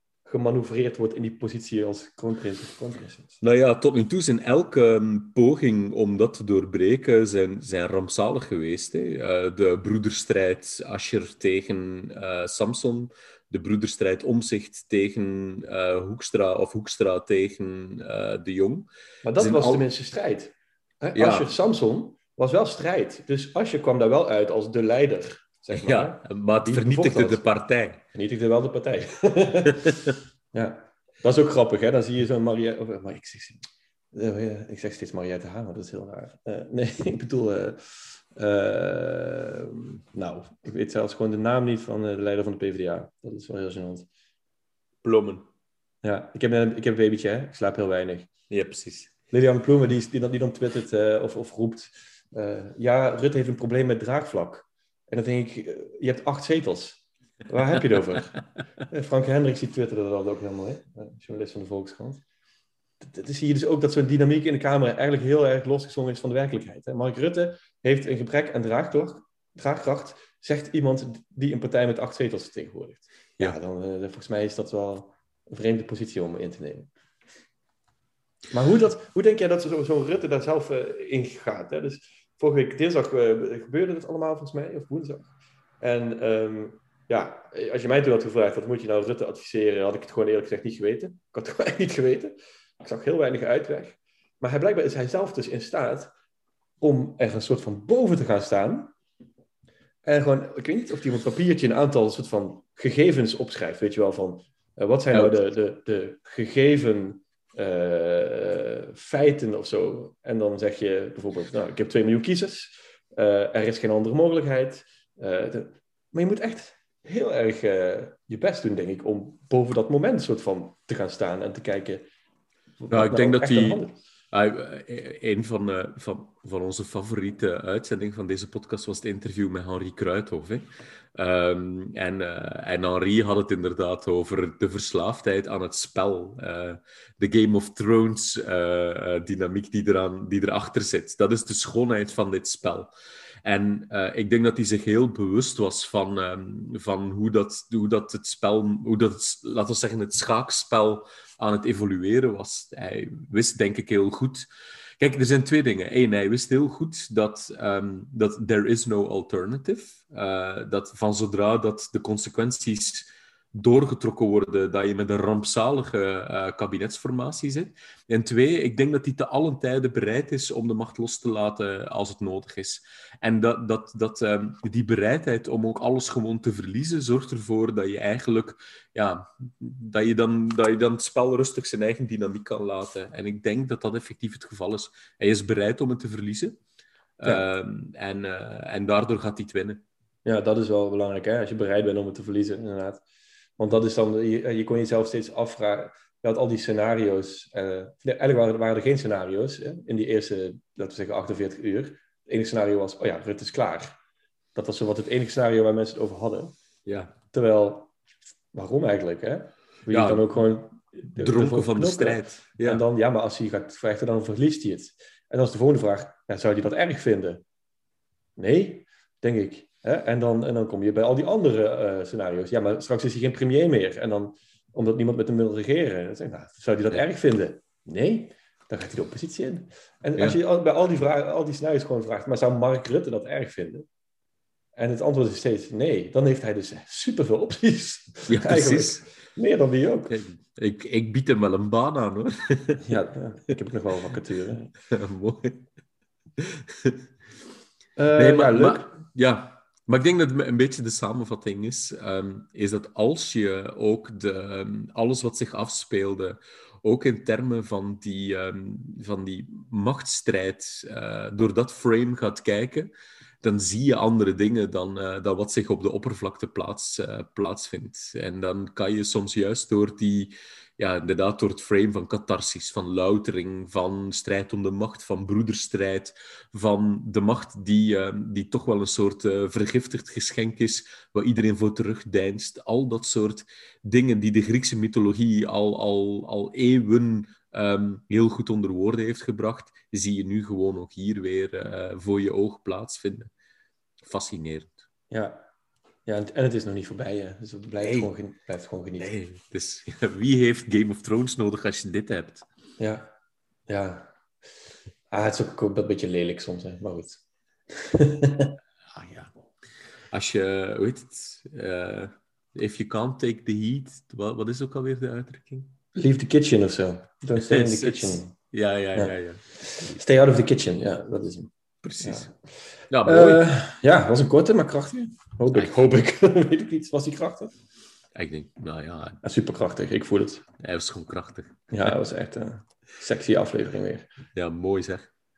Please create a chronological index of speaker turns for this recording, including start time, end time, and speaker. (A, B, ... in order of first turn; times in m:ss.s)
0:00.2-0:03.4 A
0:03.4-0:19.8 B
0:19.2-0:27.4 A
0:21.2-0:21.5 B
0:25.8-0:28.0 B
0:28.1-0:44.1 A
0:29.8-0:30.2 B
0:45.0-0:45.4 B
0:46.0-0:48.3 A
0:48.5-0:49.1 B
0:49.3-0:58.4 A
0:58.9-1:02.2 A
1:03.0-1:16.9 A
1:18.5-1:36.1 A
1:36.8-1:38.9 A
1:40.0-2:02.1 A
2:02.8-2:04.0 A
2:02.9-2:22.9 B
2:23.4-2:34.4 B
2:35.0-3:06.6 B
3:07.2-3:09.8 B
3:10.2-3:13.0 A
3:13.6-3:24.0 A
3:24.6-3:26.6 A
3:26.9-3:27.1 B
3:27.3-3:27.9 A
3:28.5-3:37.4 A
3:29.9-3:30.3 B
3:31.2-3:32.8 B
3:38.4-3:53.9 A
3:54.8-4:00.2 A
3:58.3-3:59.0 B
4:00.1-4:02.9 B
4:02.8-4:04.7 A
4:04.8-4:05.7 B
4:06.4-4:07.1 B
4:08.0-4:08.9 A
4:08.2-4:53.3 B
4:54.0-4:54.8 B
4:55.1-4:55.4 A
4:56.1-4:59.1 A
4:57.8-4:58.1 B
4:59.0-5:02.5 B
5:02.8-5:03.1 A
5:03.7-5:04.1 A
5:05.1-5:08.6 A
5:08.9-5:09.3 B
5:10.1-5:15.7 B
5:16.0-5:18.3 A
5:17.4-5:20.0 B
5:19.0-5:22.3 A
5:21.8-5:22.3 B
5:22.9-5:23.4 B
5:23.0-5:27.5 A
5:28.2-5:29.2 B
5:29.2-5:30.4 A
5:30.6-5:31.9 B
5:31.7-5:34.1 A
5:34.3-5:35.1 B